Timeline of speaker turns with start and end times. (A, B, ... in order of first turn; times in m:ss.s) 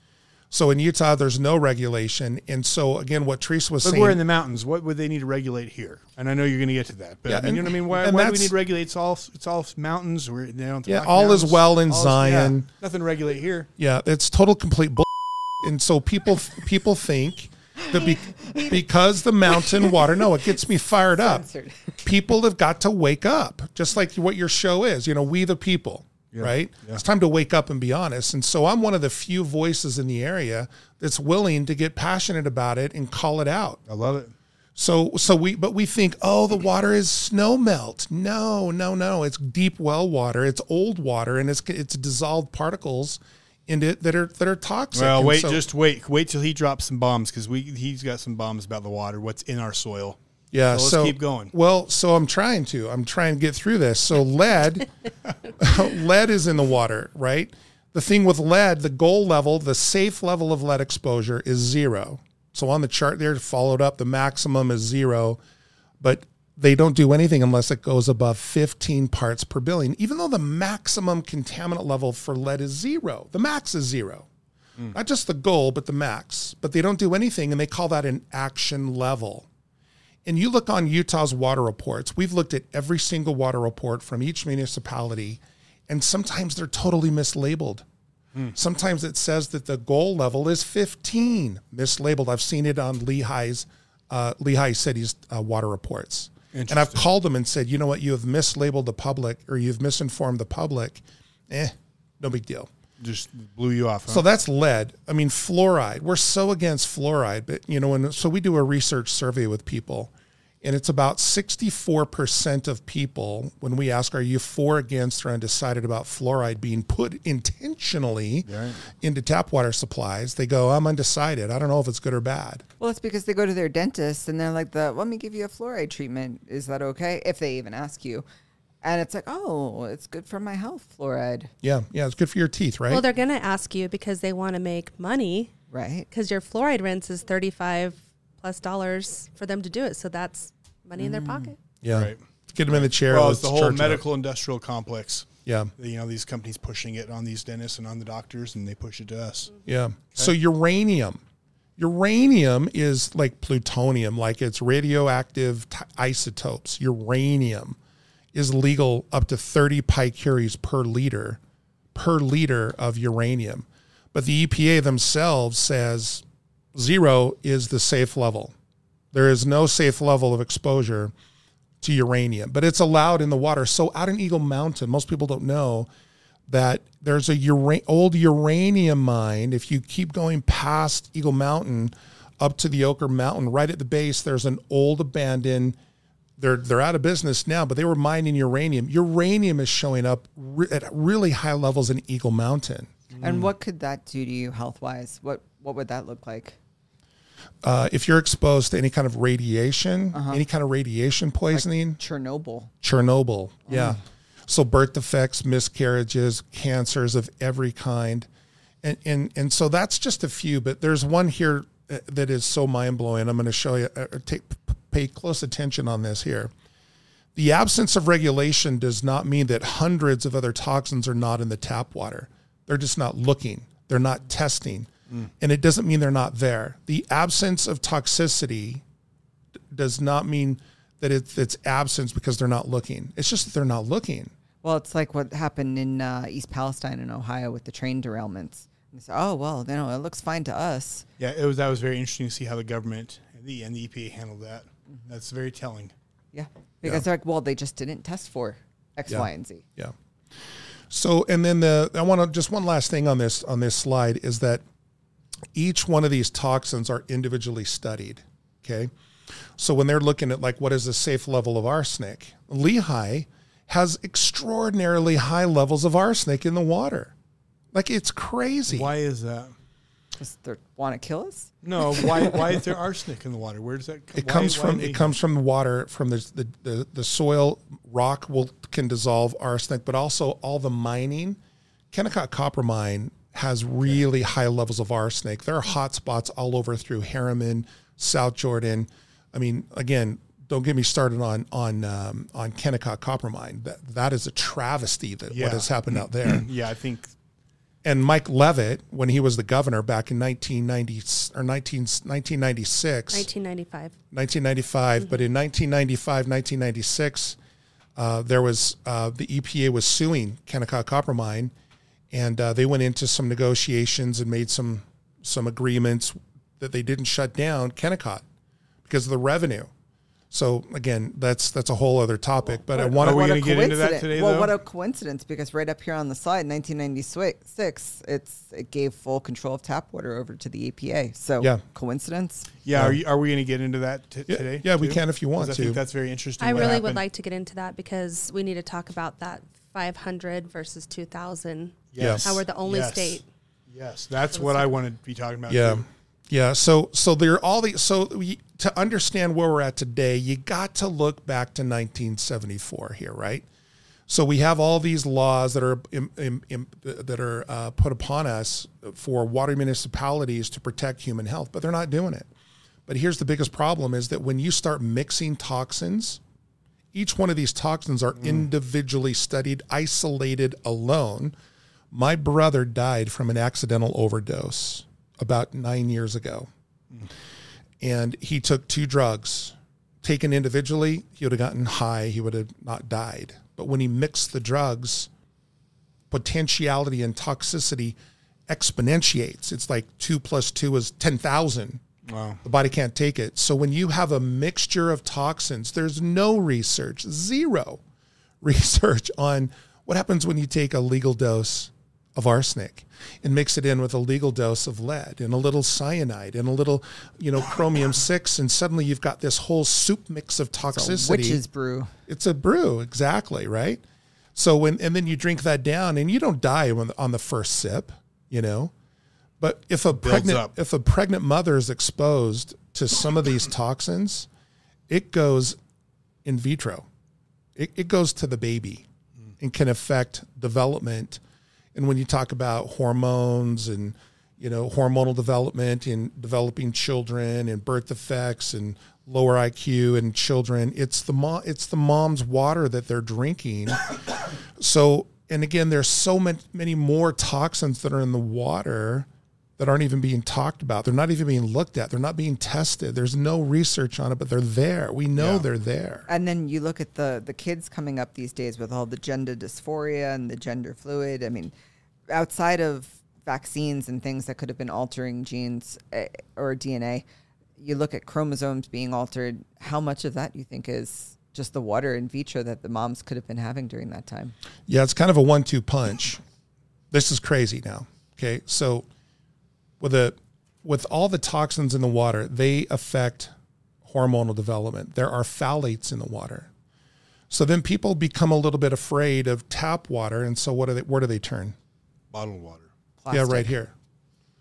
0:00.5-0:04.2 A
0:03.8-0:13.7 B
0:07.3-0:08.5 A
0:10.8-0:12.7 A
0:13.8-0:15.1 A
0:15.6-0:21.4 A
0:17.9-0:18.7 C
0:21.2-0:22.0 C
0:22.0-0:33.8 A
0:26.3-0:27.0 B
0:33.9-0:34.3 B
0:34.8-0:45.6 A
0:44.9-0:50.2 B
0:50.5-0:54.9 A
0:50.7-0:51.5 B
0:55.6-1:05.4 A
1:06.0-1:14.3 A
1:14.9-1:19.5 A
1:20.2-1:27.8 A
1:28.5-1:42.7 A
1:36.5-1:37.1 B
1:43.0-1:44.2 B
1:44.1-1:50.1 A
1:50.6-2:02.6 A
1:58.4-1:58.8 B
2:02.8-2:08.2 C
2:08.8-2:11.5 C
2:11.6-2:13.0 A
2:12.9-2:15.5 D
2:15.7-2:16.1 C
2:16.1-2:21.6 D
2:21.0-2:21.5 C
2:21.8-2:24.0 A
2:21.9-2:29.5 B
2:25.4-2:25.7 A
2:29.6-2:31.2 A
2:31.8-2:37.8 A
2:38.3-2:41.4 A
2:41.9-2:48.5 A
2:49.1-2:51.1 A
2:51.8-2:55.9 A
2:56.5-3:05.8 A
3:06.4-3:13.1 A
3:13.2-3:13.5 B
3:13.2-3:16.6 C
3:17.6-3:22.0 A
3:20.1-3:20.4 C
3:21.5-3:22.7 C
3:22.8-3:28.3 A
3:23.7-3:24.0 C
3:28.8-3:36.5 A
3:37.3-3:48.8 A
3:49.7-3:54.3 A
3:54.6-4:01.0 C
4:01.2-4:05.9 B
4:06.3-4:09.6 C
4:09.1-4:09.9 A
4:10.9-4:14.6 A
4:15.5-4:18.9 A
4:19.6-4:27.1 A
4:27.7-4:28.9 A
4:28.7-4:29.5 B
4:30.2-4:32.6 C
4:31.6-4:35.1 B
4:34.1-4:41.4 A
4:41.9-4:56.4 A
4:55.3-4:57.1 B
4:57.8-5:03.3 A
5:03.1-5:04.0 D
5:04.1-5:07.4 A
5:08.0-5:11.5 A
5:12.1-5:18.2 A
5:18.8-5:19.7 A
5:20.3-5:23.4 A
5:22.7-5:32.5 C
5:23.0-5:24.5 B
5:32.6-5:37.0 B
5:32.7-5:33.0 A
5:34.3-5:35.8 A
5:36.4-5:43.2 D
5:41.9-5:45.8 B
5:42.0-5:42.3 A
5:44.3-5:44.7 D
5:45.5-5:53.4 A
5:54.1-6:02.3 A
6:02.9-6:06.2 A
6:06.9-6:11.3 A
6:11.9-6:16.5 A
6:17.8-6:25.1 A
6:26.1-6:28.0 A
6:28.5-6:31.8 A
6:32.0-6:32.4 B
6:32.4-6:37.8 A
6:38.4-6:51.4 A
6:50.7-6:51.9 C
6:52.1-6:53.8 A
6:54.3-6:58.7 A
6:59.4-7:04.3 A
6:59.9-7:00.5 B
7:04.9-7:05.6 A
7:06.2-7:06.8 A
7:07.6-7:08.8 A
7:09.4-7:11.2 A
7:11.7-7:23.8 A
7:24.6-7:29.1 A
7:29.6-7:36.1 A
7:35.2-7:35.4 B
7:36.1-7:41.5 C
7:42.1-7:47.0 C
7:47.6-7:54.3 C
7:54.7-7:56.2 A
7:56.9-7:58.8 A
7:59.8-8:03.3 A
8:03.8-8:06.5 A
8:07.3-8:11.5 A
8:12.1-8:12.7 B
8:13.0-8:13.5 C
8:13.1-8:13.7 A